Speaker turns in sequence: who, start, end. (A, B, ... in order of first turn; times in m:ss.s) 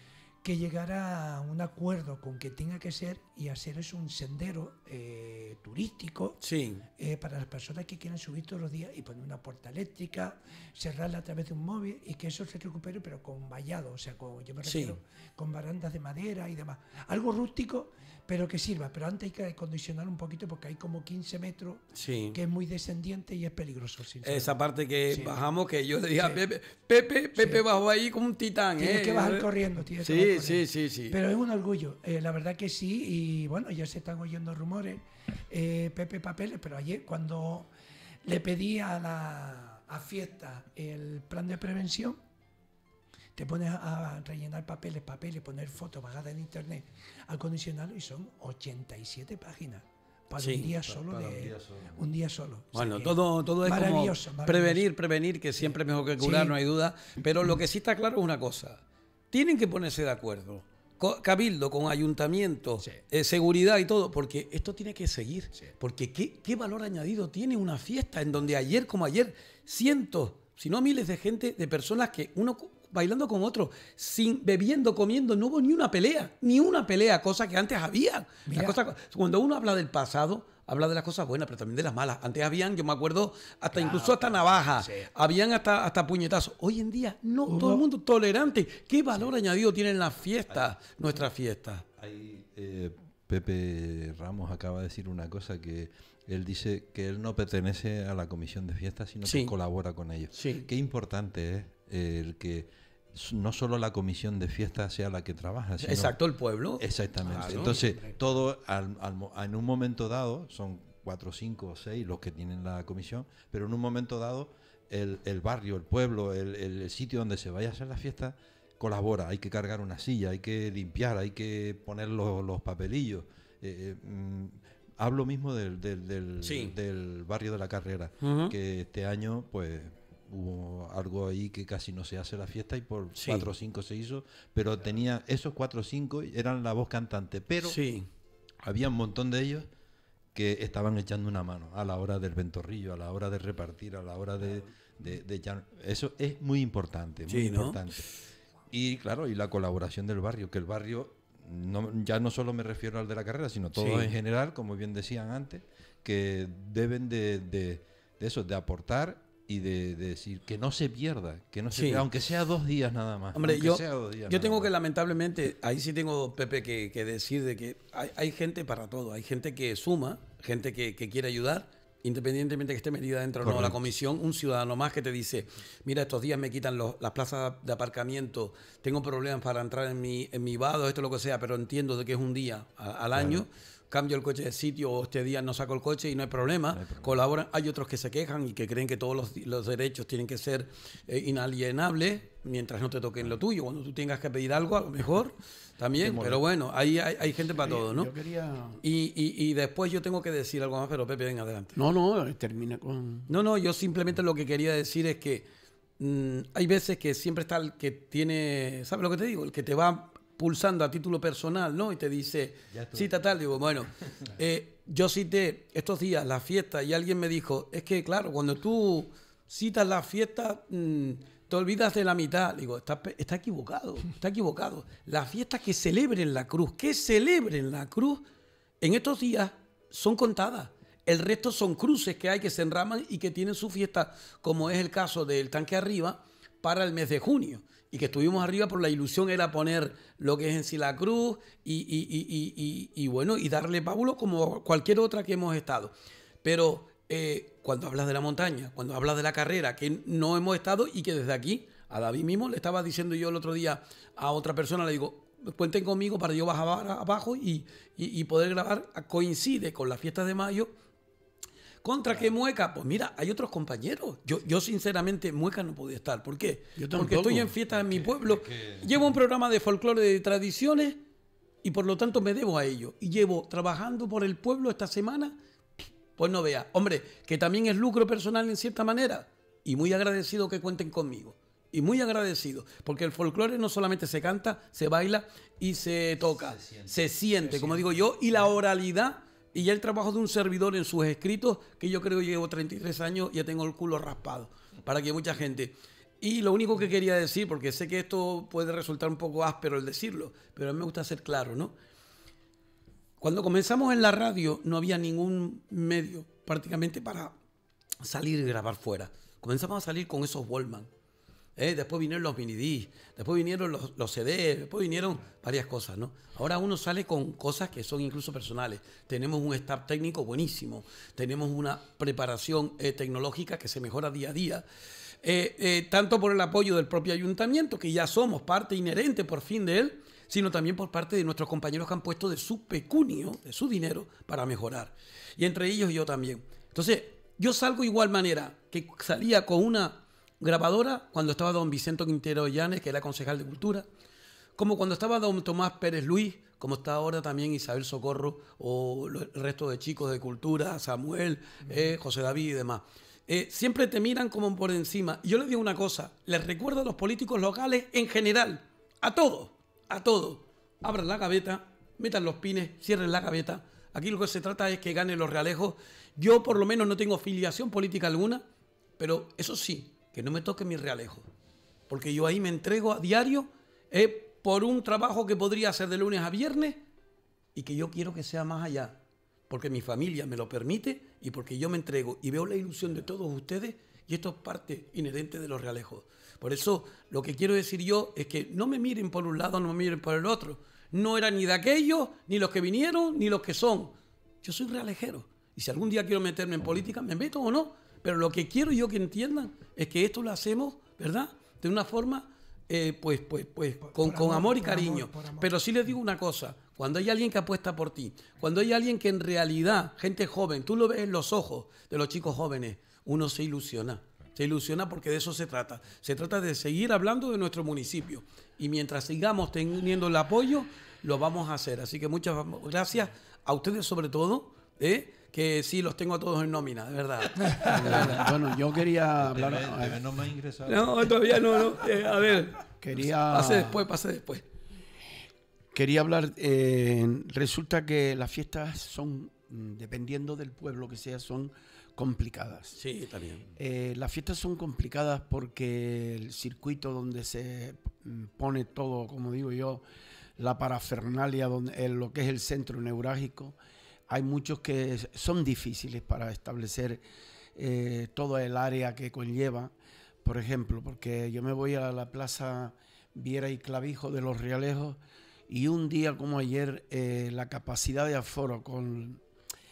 0:00.4-0:06.4 A
0:06.4-0:06.8 B
0:07.0-0:24.5 A
0:14.6-0:15.0 B
0:22.0-0:22.4 B
0:24.2-0:29.5 B
0:25.1-0:25.3 A
0:27.4-0:27.6 A
0:28.8-0:37.7 A
0:30.0-0:31.2 B
0:38.2-0:42.2 A
0:43.4-0:54.8 A
0:50.4-0:50.7 B
0:50.8-0:52.0 C
0:52.7-1:31.8 B
0:56.2-0:56.6 A
1:18.5-1:18.8 A
1:23.8-1:25.1 A
1:27.5-1:27.8 A
1:32.0-1:46.2 C
1:39.2-1:39.5 B
1:40.3-1:40.7 B
1:45.8-1:47.7 B
1:46.8-2:17.8 C
1:47.2-1:48.2 A
2:06.4-2:06.7 B
2:08.2-2:08.5 B
2:13.2-2:13.5 B
2:17.6-2:18.1 B
2:18.6-2:19.7 C
2:20.3-2:28.0 C
2:27.3-2:27.8 B
2:28.7-2:44.7 C
2:33.8-2:34.1 B
2:41.7-2:42.0 B
2:43.3-3:18.1 B
2:53.4-2:53.8 C
3:03.1-3:03.4 C
3:06.7-3:07.2 C
3:16.0-3:16.4 C
3:17.6-3:18.8 D
3:18.8-3:21.8 B
3:21.7-3:23.3 D
3:23.3-3:25.5 B
3:26.0-3:48.2 B
3:32.7-3:33.2 C
3:48.8-4:05.9 B
4:06.4-4:20.7 B
4:21.8-4:31.0 B
4:26.8-4:27.5 D
4:27.7-4:29.1 C
4:31.6-4:35.4 B
4:36.2-5:01.7 B
4:46.3-4:48.1 C
5:03.2-5:07.3 B
5:08.0-5:10.9 B
5:11.6-5:24.6 B
5:25.2-5:43.8 B
5:44.6-6:08.4 B
6:09.0-6:11.2 B
6:11.9-6:16.8 B
6:17.5-6:19.0 B
6:19.5-7:08.4 B
6:43.8-6:45.6 A
7:07.6-7:10.0 D
7:09.2-7:11.4 C
7:10.7-7:14.4 B
7:12.8-7:13.8 D
7:15.7-7:22.8 D
7:22.8-7:23.5 B
7:23.5-7:29.8 D
7:30.4-7:33.6 D
7:34.1-7:37.0 D
7:37.6-7:39.7 D
7:40.2-7:45.0 D
7:45.5-7:49.2 D